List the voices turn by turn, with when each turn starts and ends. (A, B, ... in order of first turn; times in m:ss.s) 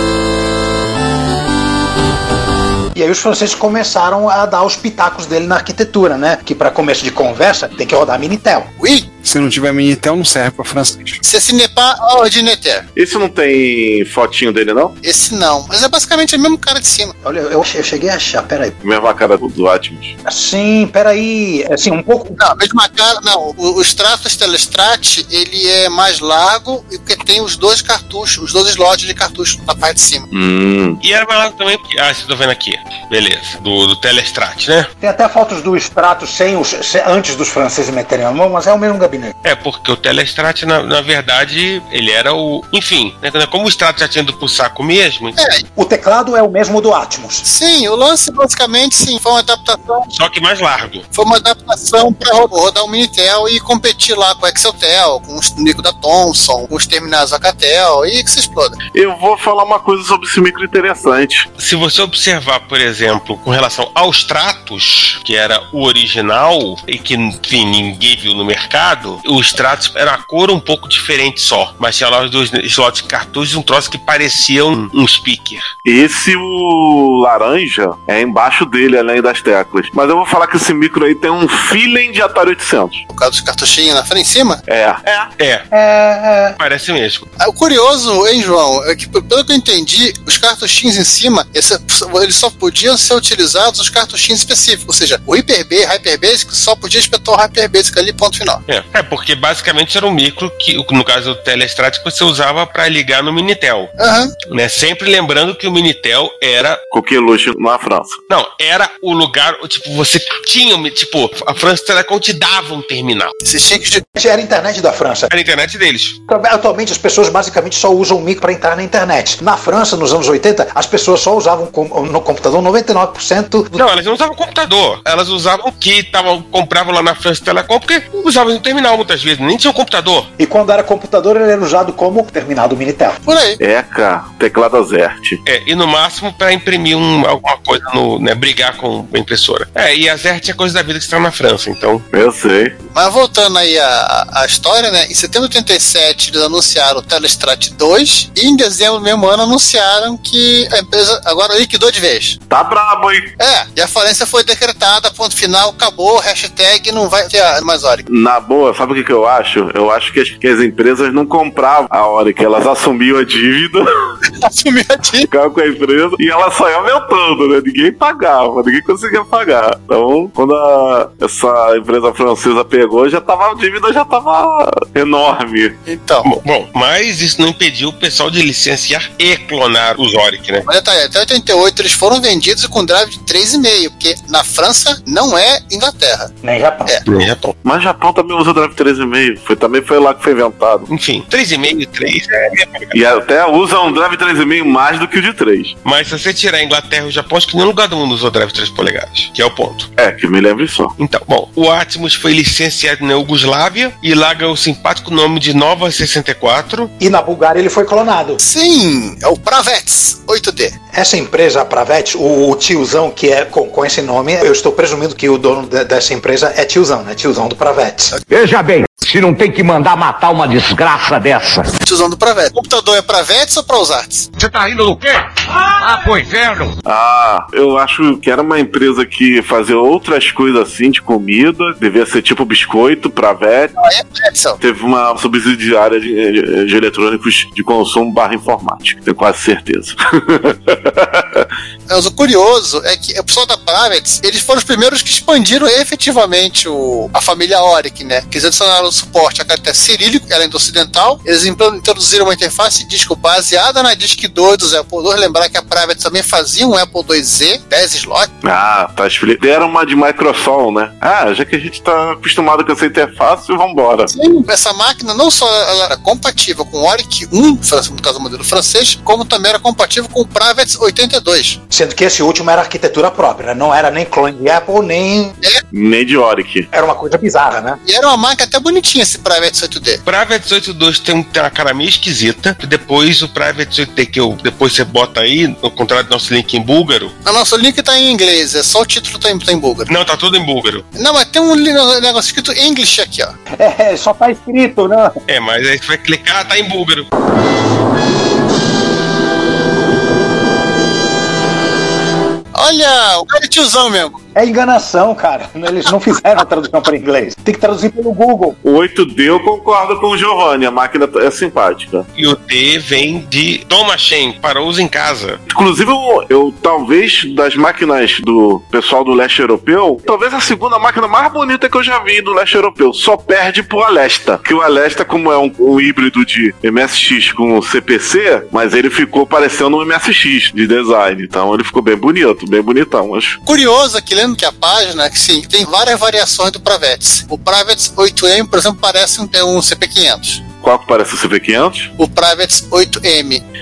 0:03.0-0:08.7 A
0:08.8-0:09.1 B
0:09.2-0:11.2 C
0:11.2-0:12.9 B
0:13.0-0:15.0 D
0:15.0-0:17.1 B
0:17.2-0:18.8 A
0:18.8-0:20.2 D
0:20.2-0:22.4 A
0:22.4-0:30.3 B
0:30.3-0:31.0 D
0:31.0-0:34.9 E
0:35.0-0:39.3 A
0:39.4-0:45.4 E
0:45.4-0:45.6 B
0:45.8-0:47.4 A
0:47.4-0:50.1 B
0:50.1-0:51.0 E
0:51.1-0:58.8 B
0:58.9-1:01.5 D
1:01.6-1:15.7 E
1:15.8-1:23.0 D
1:23.1-1:24.6 B
1:24.7-1:25.3 D
1:25.4-1:25.7 E
1:25.7-1:26.6 A
1:26.6-1:27.2 E
1:27.4-1:38.6 B
1:38.7-1:43.9 E
1:44.0-1:44.3 B
1:44.5-1:46.8 E
1:46.9-1:48.2 D
1:48.3-1:53.3 E
1:53.4-1:54.0 B
1:54.2-1:55.3 A
1:55.3-1:56.2 E
1:56.3-2:03.8 A
2:03.8-2:10.3 E
2:10.4-2:13.2 A
2:13.2-2:13.6 B
2:13.6-2:15.4 D
2:15.4-2:22.0 E
2:22.1-2:22.8 D
2:22.9-2:32.4 B
2:32.5-2:33.3 D
2:33.4-2:38.1 B
2:38.1-2:43.9 D
2:44.4-2:45.3 B
2:45.3-2:55.8 D
2:55.9-2:56.3 B
2:56.2-3:00.6 E
3:00.7-3:06.3 B
3:06.4-3:06.9 A
3:07.1-3:07.5 E
3:07.6-3:10.9 D
3:10.9-3:12.9 E
3:12.9-3:15.8 D
3:15.8-3:19.9 E
3:20.0-3:20.9 D
3:21.0-3:26.9 E
3:27.0-3:28.4 A
3:28.4-3:30.8 B
3:30.9-3:38.1 A
3:38.3-3:41.7 F
3:41.8-3:44.3 B
3:46.8-3:53.7 D
3:53.8-3:54.6 B
3:54.6-4:01.5 D
4:01.9-4:18.3 B
4:18.4-4:24.1 D
4:24.1-4:31.6 B
4:31.7-4:35.4 A
4:35.7-4:36.7 D
4:36.7-4:37.8 A
4:37.8-4:40.0 B
4:40.0-4:47.1 E
4:47.2-4:49.9 B
4:49.9-4:50.8 E
4:51.0-4:53.3 B
4:53.6-4:55.2 A
4:55.3-4:57.1 E
5:02.5-5:04.2 B
5:04.4-5:08.6 A
5:08.6-5:12.1 D
5:12.2-5:15.4 E
5:15.5-5:33.4 D
5:33.5-5:40.4 B
5:40.6-5:41.9 D
5:42.0-5:43.4 B